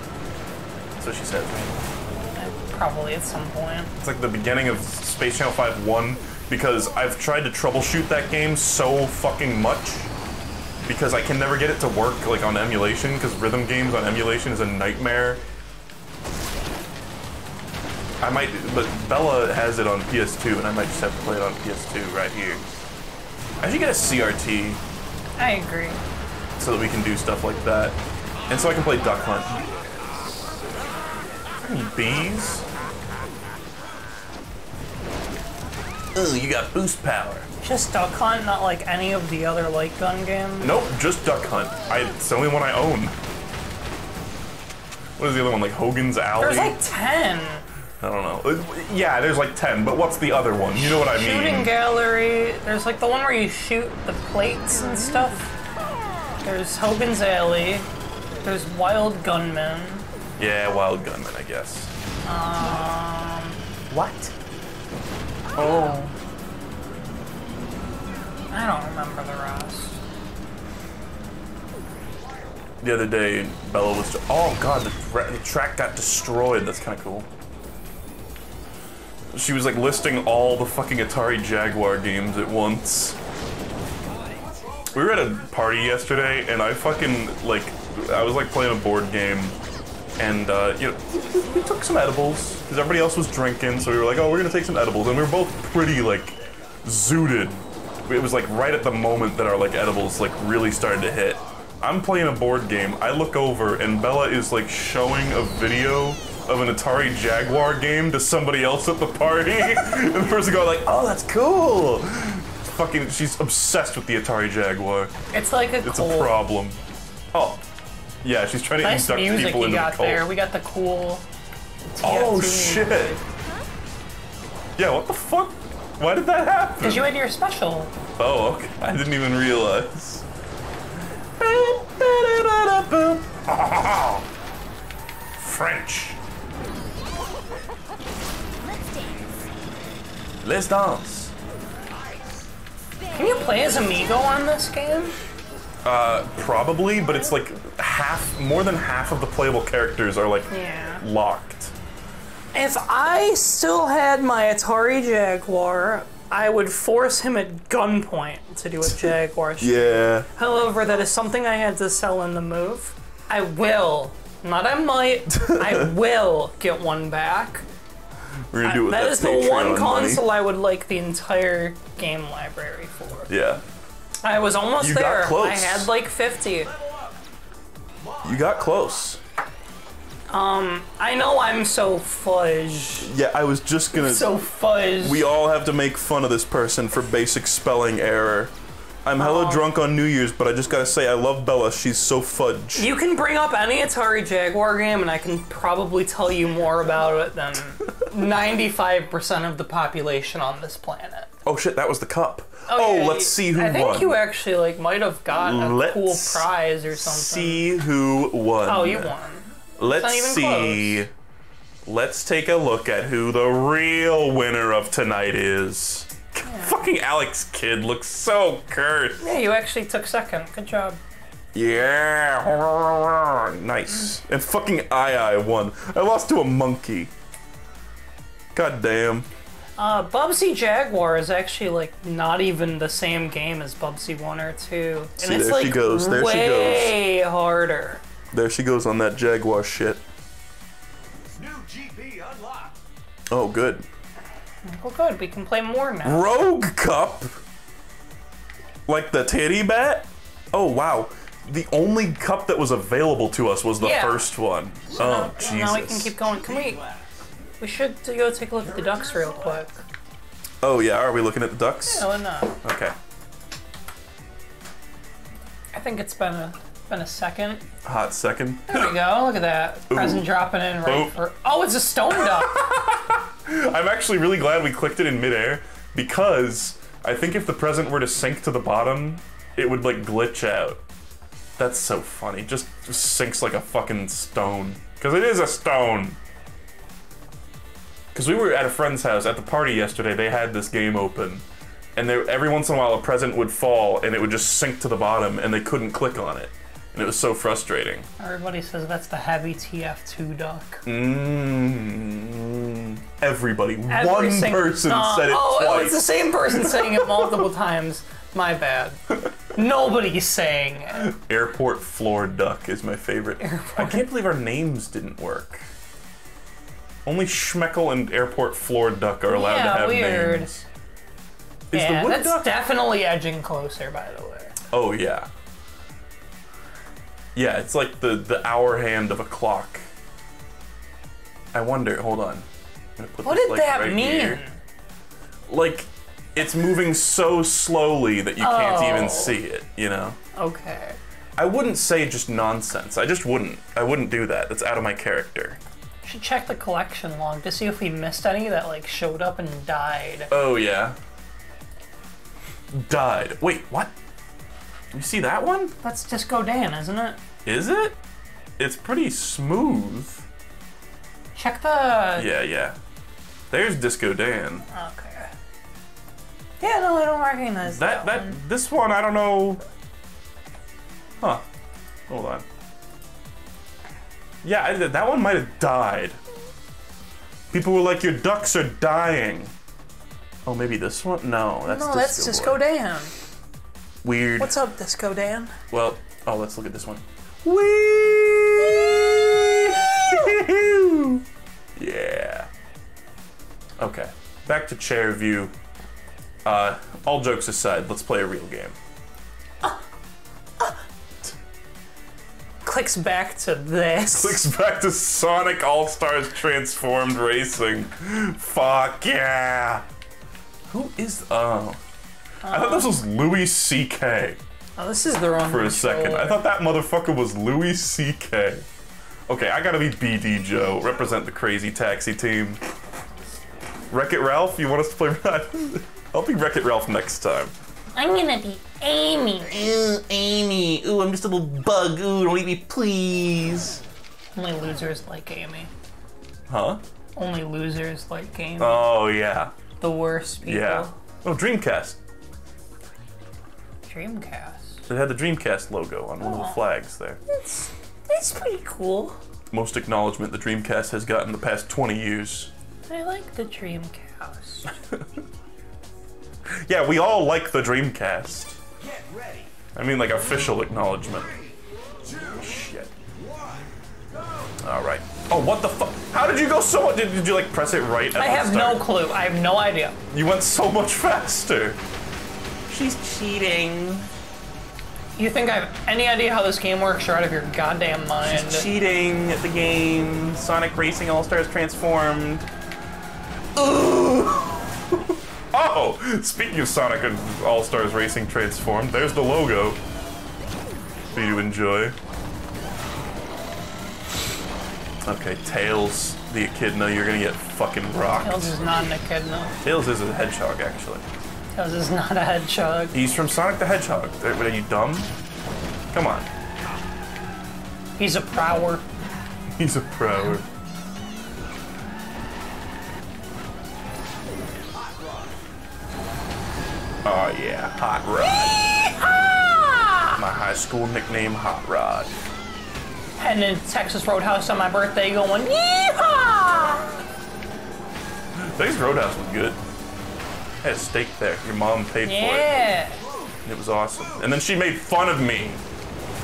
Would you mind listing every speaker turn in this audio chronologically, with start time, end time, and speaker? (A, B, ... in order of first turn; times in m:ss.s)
0:01.0-0:01.8 A
0:02.4-0:03.9 B
0:04.0-0:10.1 A
0:10.8-0:15.4 A
0:18.2-0:22.6 A
0:23.6-0:24.8 A
0:25.4-0:26.0 B
0:26.6-0:29.6 A
0:28.5-0:31.6 C
0:31.6-0:32.6 A
0:36.1-0:37.5 A
0:37.6-0:40.8 B
0:40.6-0:43.2 A
0:45.2-0:46.8 A
0:46.4-0:47.6 B
0:48.0-0:51.7 A
0:50.7-0:55.6 B
0:56.4-0:57.9 B
0:58.4-1:00.0 B
1:00.4-1:01.9 A
1:02.2-1:03.6 B
1:03.9-1:04.3 A
1:05.5-1:06.1 A
1:05.6-1:06.1 B
1:08.5-1:10.0 B
1:12.0-1:12.7 C
1:12.8-1:17.3 A
1:19.3-1:23.2 A
1:24.0-1:25.7 C
1:24.9-1:29.6 A
1:30.2-1:55.1 A
1:55.3-1:56.3 B
1:55.8-1:56.8 A
1:57.3-1:57.6 A
1:58.2-2:00.3 A
1:58.8-2:01.2 B
2:01.9-2:03.2 B
2:02.0-2:03.2 A
2:04.8-2:07.1 A
2:06.8-2:07.9 B
2:08.2-2:10.2 A
2:11.4-2:14.2 A
2:15.4-2:16.2 A
2:20.4-2:21.3 A
2:21.8-2:22.5 C
2:23.1-2:25.2 B
2:25.8-2:31.7 A
2:30.5-2:31.0 B
2:32.5-2:47.6 B
2:38.8-2:40.3 A
2:45.3-2:45.9 A
2:48.5-2:50.2 A
2:48.6-2:53.3 B
2:53.3-2:53.6 A
2:54.2-2:56.7 B
2:54.8-2:55.9 A
2:56.6-2:57.2 C
2:58.0-2:59.1 C
2:58.2-2:59.2 A
3:00.3-3:03.1 B
3:03.0-3:04.4 A
3:03.9-3:05.2 B
3:05.0-3:08.5 A
3:09.0-3:12.9 A
3:09.2-3:09.7 B
3:12.7-3:21.3 B
3:21.4-3:24.2 A
3:22.7-3:27.7 B
3:25.4-3:29.1 A
3:28.6-3:31.0 B
3:29.8-3:31.1 A
3:31.8-3:39.3 A
3:36.4-3:36.8 B
3:39.2-3:41.0 B
3:41.5-3:47.1 A
3:48.5-3:49.3 A
3:49.8-3:58.0 B
3:55.2-3:57.0 A
3:58.3-4:00.0 A
4:01.3-4:02.8 C
4:03.3-4:03.8 A
4:04.6-4:06.4 B
4:06.0-4:07.3 A
4:08.9-4:16.2 A
4:13.8-4:14.3 B
4:14.9-4:16.8 B
4:14.9-4:17.3 C
4:17.6-4:19.8 B
4:18.6-4:19.7 C
4:20.6-4:22.1 A
4:21.8-4:22.6 B
4:22.6-4:22.9 A
4:25.7-4:27.6 B
4:27.8-4:29.0 A
4:28.7-4:32.6 B
4:29.9-4:30.3 A
4:30.8-4:31.2 A
4:32.1-4:40.8 A
4:41.6-4:46.2 A
4:48.1-4:51.4 A
4:51.9-4:58.1 A
4:58.2-5:00.8 B
5:00.8-5:07.5 A
5:03.9-5:11.1 B
5:10.9-5:15.7 A
5:13.4-5:14.1 B
5:17.0-5:20.6 A
5:19.3-5:20.5 B
5:21.7-5:22.6 A
5:21.7-5:24.6 B
5:24.7-5:25.3 A
5:27.3-5:29.9 A
5:31.5-5:32.4 A
5:33.0-5:34.4 A
5:33.2-5:34.6 B
5:35.5-5:40.2 A
5:38.4-5:39.4 B
5:40.4-5:41.0 B
5:41.4-5:45.6 A
5:46.0-5:50.3 B
5:50.3-5:51.0 A
5:52.7-5:53.9 A
5:54.9-5:55.7 A
5:55.8-5:57.2 B
5:57.4-5:58.0 A
5:58.6-6:00.2 A
6:01.3-6:02.3 B
6:02.2-6:02.8 A
6:03.5-6:04.6 A
6:04.7-6:05.3 B
6:06.6-6:08.4 B
6:07.6-6:09.6 A
6:12.1-6:12.4 A
6:14.4-6:16.2 A
6:17.5-6:19.5 A
6:20.4-6:22.6 A
6:21.6-6:23.1 B
6:24.0-6:24.6 A
6:24.4-6:25.6 B
6:25.7-6:31.2 A
6:31.8-6:32.5 A
6:33.8-6:35.5 A
6:36.4-6:38.8 A
6:42.6-6:44.4 B
6:44.1-6:49.8 A
6:50.7-6:51.8 A
6:52.4-6:52.9 B
6:52.4-6:54.4 A
6:54.8-6:56.4 B
6:55.4-6:58.6 A
6:59.3-7:02.6 A
7:03.9-7:07.5 A
7:07.9-7:09.7 B
7:09.5-7:13.8 A
7:14.3-7:15.7 B
7:16.5-7:16.8 A
7:17.2-7:18.9 B
7:18.6-7:19.5 A
7:19.8-7:20.9 B
7:20.4-7:22.0 A
7:23.8-7:24.8 B
7:24.9-7:27.2 A
7:26.2-7:26.6 B
7:27.3-7:29.2 B
7:29.5-7:32.5 A
7:32.9-7:34.8 B
7:36.4-7:38.6 A
7:38.8-7:39.6 C
7:39.7-7:41.3 A
7:41.0-7:44.6 C
7:42.4-7:42.9 A
7:44.6-7:48.9 A
7:48.1-7:50.0 B
7:50.1-7:51.8 A
7:52.7-7:54.1 A
7:55.2-7:58.7 B
7:58.2-8:02.4 A
8:03.6-8:09.8 A
8:11.1-8:12.0 A
8:15.0-8:18.5 A
8:18.2-8:19.6 B
8:19.6-8:21.0 A
8:21.5-8:23.0 B
8:22.9-8:25.1 A
8:25.9-8:26.3 A
8:28.0-8:28.8 B
8:29.5-8:30.5 A
8:34.6-8:35.4 C
8:37.0-8:38.6 A
8:38.2-8:40.2 B
8:40.2-8:42.1 A
8:43.2-8:47.0 B
8:48.3-8:49.6 A
8:50.6-8:52.5 A
8:52.0-8:53.0 B
8:53.0-8:53.3 C
8:53.4-8:55.6 A